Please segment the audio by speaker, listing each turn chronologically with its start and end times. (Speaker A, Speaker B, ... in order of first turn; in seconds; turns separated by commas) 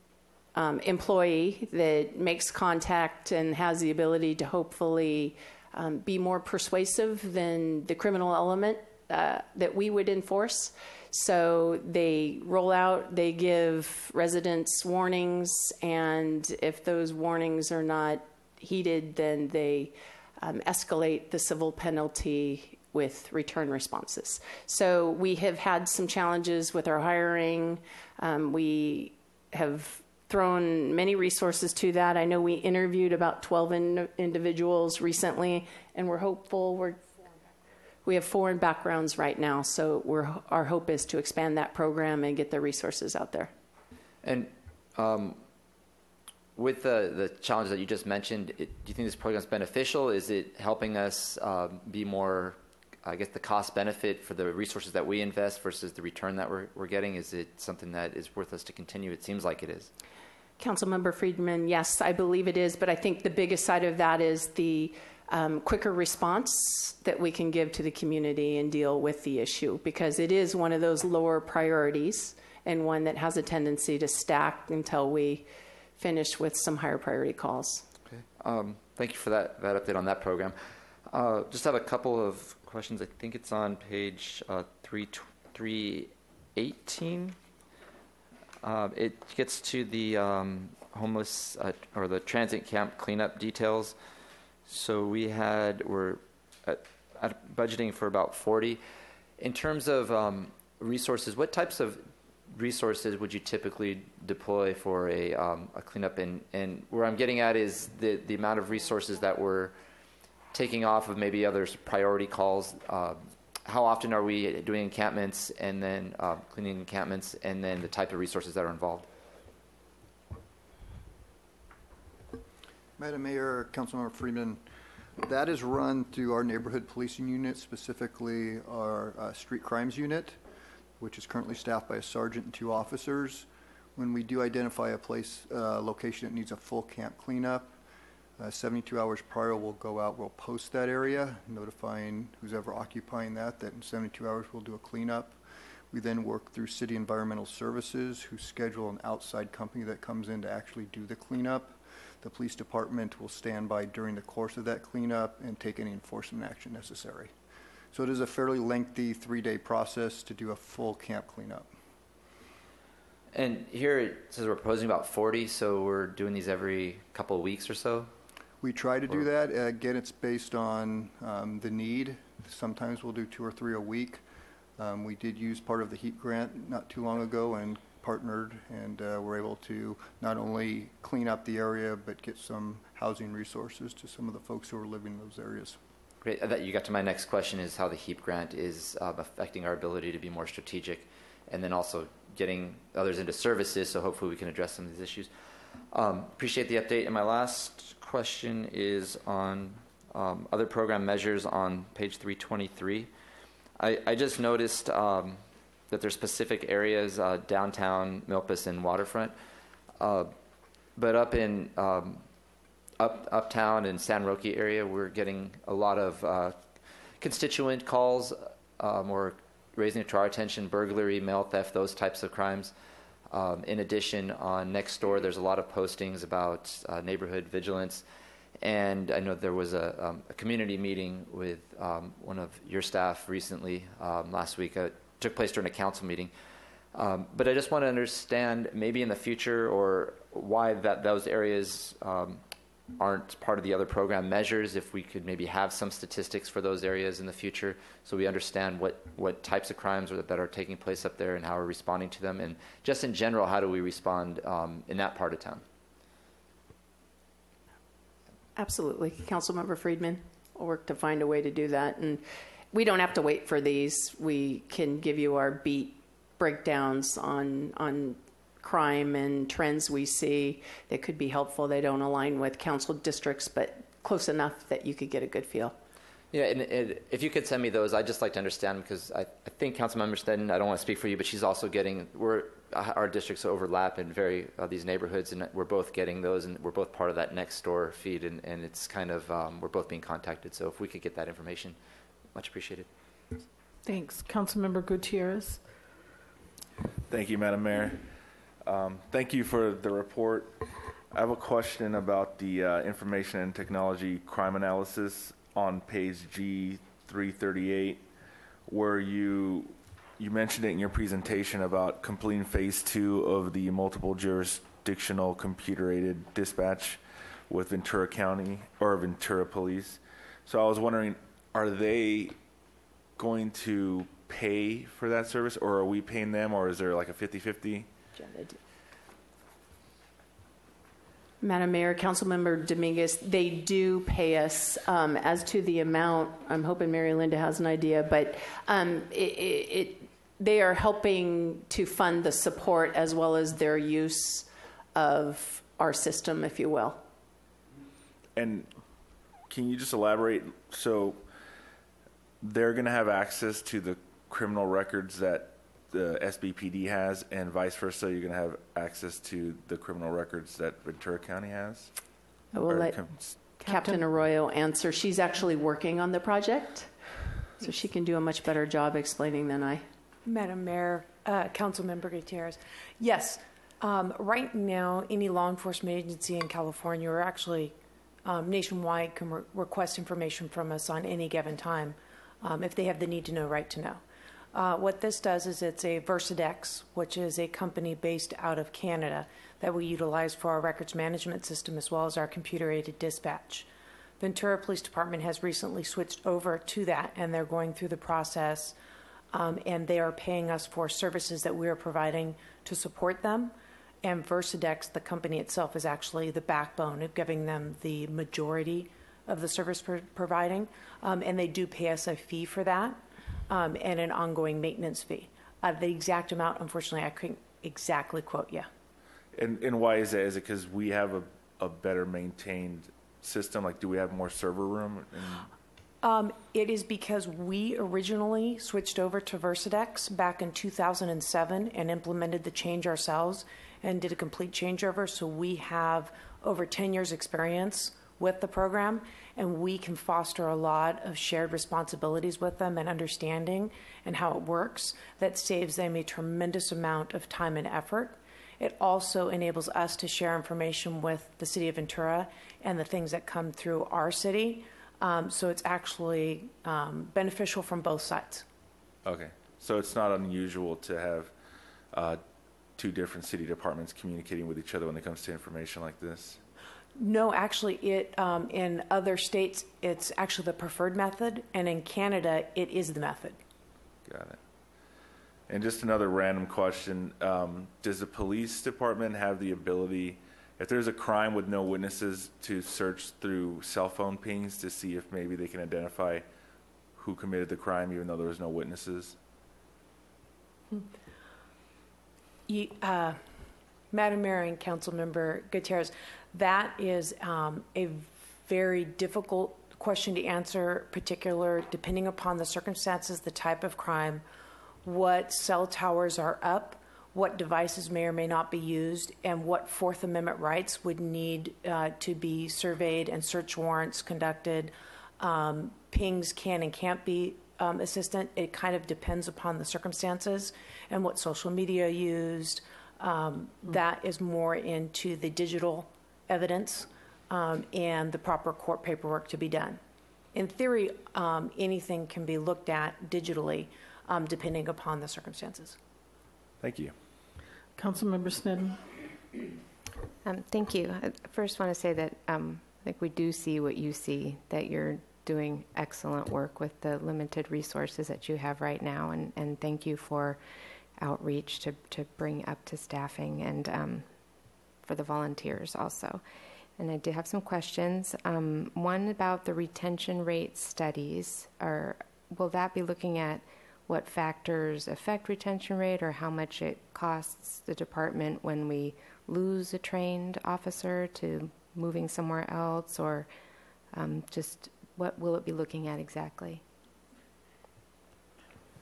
Speaker A: 0.6-37.1, Speaker A: 38.0-43.5, Speaker B: 44.2-45.4, Speaker B: 46.6-59.9, Speaker A: 60.6-75.5, Speaker A: 76.0-77.9, Speaker B: 78.2-80.6, Speaker B: 81.1-87.4, Speaker B: 88.6-94.0, Speaker B: 94.7-98.8, Speaker B: 99.4-109.7, Speaker B: 110.5-119.1, Speaker C: 123.0-124.6, Speaker C: 125.2-130.4, Speaker C: 131.0-137.8, Speaker C: 138.4-145.4, Speaker C: 145.9-157.3, Speaker C: 157.9-161.7, Speaker B: 163.3-168.1, Speaker C: 168.6-174.2, Speaker C: 174.8-185.8, Speaker B: 186.2-195.3, Speaker B: 195.9-203.1, Speaker B: 203.8-209.3, Speaker B: 210.0-210.3, Speaker B: 211.0-212.2, Speaker B: 213.0-216.6, Speaker B: 217.2-222.7, Speaker B: 223.3-228.0, Speaker B: 228.6-236.3, Speaker B: 236.9-242.4, Speaker B: 243.0-255.6, Speaker A: 258.6-275.8, Speaker B: 276.3-291.8, Speaker B: 292.3-292.9, Speaker D: 293.9-295.6, Speaker E: 297.1-298.1, Speaker E: 298.6-308.0, Speaker E: 308.7-322.4, Speaker E: 323.2-327.9, Speaker A: 328.2-328.6, Speaker A: 331.4-347.0, Speaker E: 348.4-348.7, Speaker E: 349.5-351.2, Speaker E: 352.4-361.9, Speaker A: 362.6-366.9, Speaker E: 362.6-363.5, Speaker A: 367.6-369.8, Speaker F: 370.2-384.0, Speaker F: 384.5-393.7, Speaker F: 394.2-398.8, Speaker F: 399.3-418.7, Speaker E: 419.4-425.5, Speaker F: 426.0-458.5, Speaker E: 459.1-461.3, Speaker E: 461.9-462.2, Speaker E: 462.8-466.4, Speaker F: 467.0-473.4, Speaker E: 474.1-474.4, Speaker E: 475.5-486.2, Speaker E: 487.0-489.2, Speaker F: 492.5-493.2, Speaker F: 493.9-504.2, Speaker F: 504.9-529.8, Speaker F: 530.3-535.8, Speaker E: 536.6-536.9, Speaker D: 537.8-538.8, Speaker G: 540.2-550.4, Speaker G: 551.0-554.1, Speaker G: 554.8-556.2, Speaker G: 556.8-573.3, Speaker G: 573.9-576.6